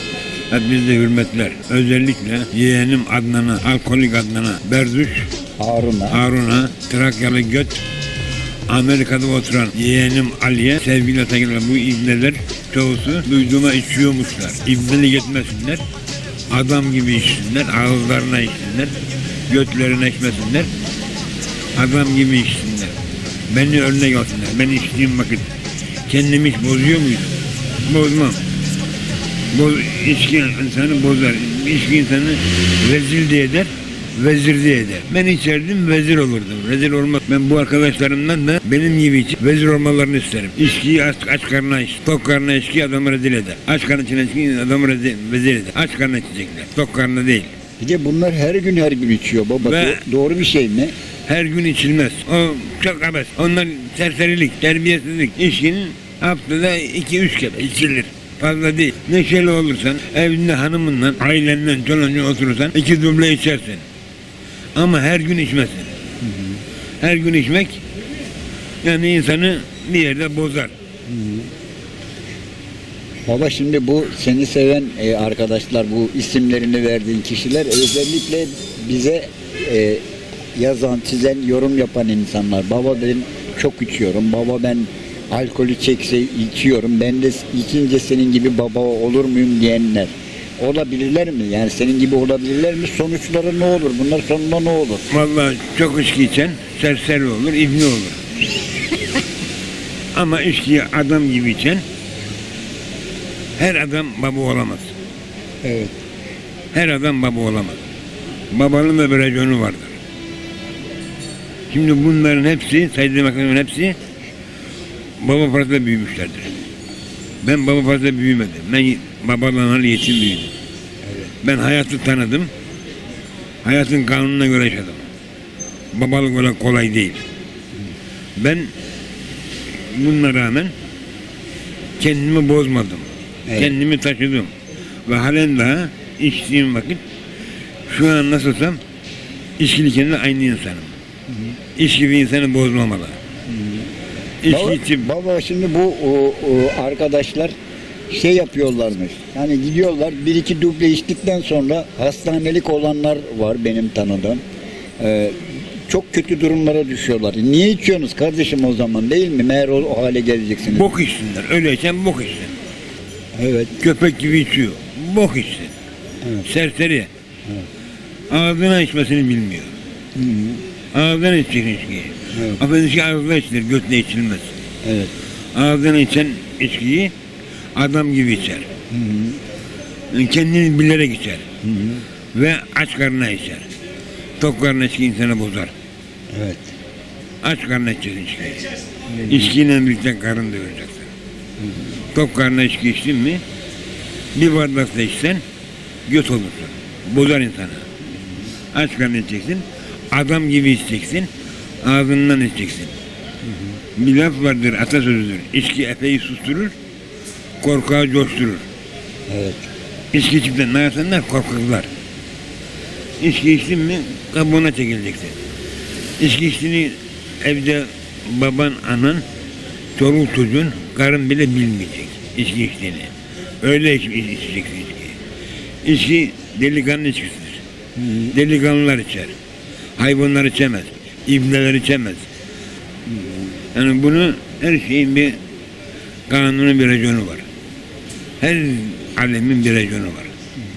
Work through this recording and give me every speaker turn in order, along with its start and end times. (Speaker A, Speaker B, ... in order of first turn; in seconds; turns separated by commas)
Speaker A: 0.5-5.3, Speaker B: 5.6-6.2, Speaker A: 6.1-7.8, Speaker A: 8.7-15.8, Speaker A: 16.5-18.9, Speaker A: 19.5-20.7, Speaker A: 21.7-22.9, Speaker A: 23.5-25.5, Speaker A: 26.1-28.4, Speaker A: 29.5-47.5, Speaker B: 47.8-50.9, Speaker A: 49.6-50.0, Speaker A: 51.3-63.8, Speaker A: 64.7-65.9, Speaker B: 66.2-66.6, Speaker A: 67.0-67.8, Speaker A: 68.8-70.7, Speaker B: 71.1-71.5, Speaker B: 73.2-80.0, Speaker B: 80.5-95.0, Speaker A: 95.1-98.2, Speaker A: 100.1-101.8, Speaker A: 103.5-104.9, Speaker B: 105.6-105.9, Speaker A: 106.7-107.8, Speaker A: 108.5-110.0, Speaker A: 111.7-114.0, Speaker A: 115.2-116.6, Speaker A: 117.4-120.5, Speaker A: 121.4-122.5, Speaker A: 123.6-125.0, Speaker A: 125.9-127.2, Speaker A: 128.4-128.7, Speaker A: 129.7-130.7, Speaker A: 132.0-134.5, Speaker B: 133.5-133.7, Speaker A: 135.1-137.0, Speaker A: 137.9-138.8, Speaker A: 139.6-140.9, Speaker A: 141.8-143.2, Speaker B: 143.5-143.9, Speaker A: 144.4-145.1, Speaker B: 144.4-147.5, Speaker B: 148.1-154.4, Speaker B: 155.0-160.9, Speaker A: 160.6-162.5, Speaker B: 163.3-163.7, Speaker A: 163.8-165.7, Speaker A: 166.4-167.1, Speaker A: 168.3-169.7, Speaker B: 170.2-170.6, Speaker A: 170.9-174.5, Speaker B: 172.3-172.6, Speaker B: 174.8-175.1, Speaker A: 175.5-177.1, Speaker A: 177.7-178.7, Speaker B: 178.9-179.4, Speaker A: 180.1-181.5, Speaker B: 181.6-182.0, Speaker A: 182.3-183.7, Speaker A: 184.4-185.7, Speaker B: 186.3-186.7, Speaker A: 187.4-188.6, Speaker B: 189.1-189.5, Speaker A: 189.2-191.1, Speaker A: 192.1-193.4, Speaker A: 194.3-195.4, Speaker A: 196.1-197.8, Speaker A: 198.7-201.3, Speaker A: 201.8-202.9, Speaker A: 203.9-206.7, Speaker A: 207.6-208.6, Speaker B: 209.3-209.7, Speaker A: 210.1-211.9, Speaker A: 213.2-215.3, Speaker A: 216.2-219.2, Speaker A: 219.9-225.2, Speaker A: 225.8-227.6, Speaker B: 228.0-228.3, Speaker A: 228.2-229.3, Speaker A: 230.0-232.2, Speaker B: 233.1-233.5, Speaker A: 233.7-235.4, Speaker A: 236.3-237.4, Speaker A: 238.4-240.3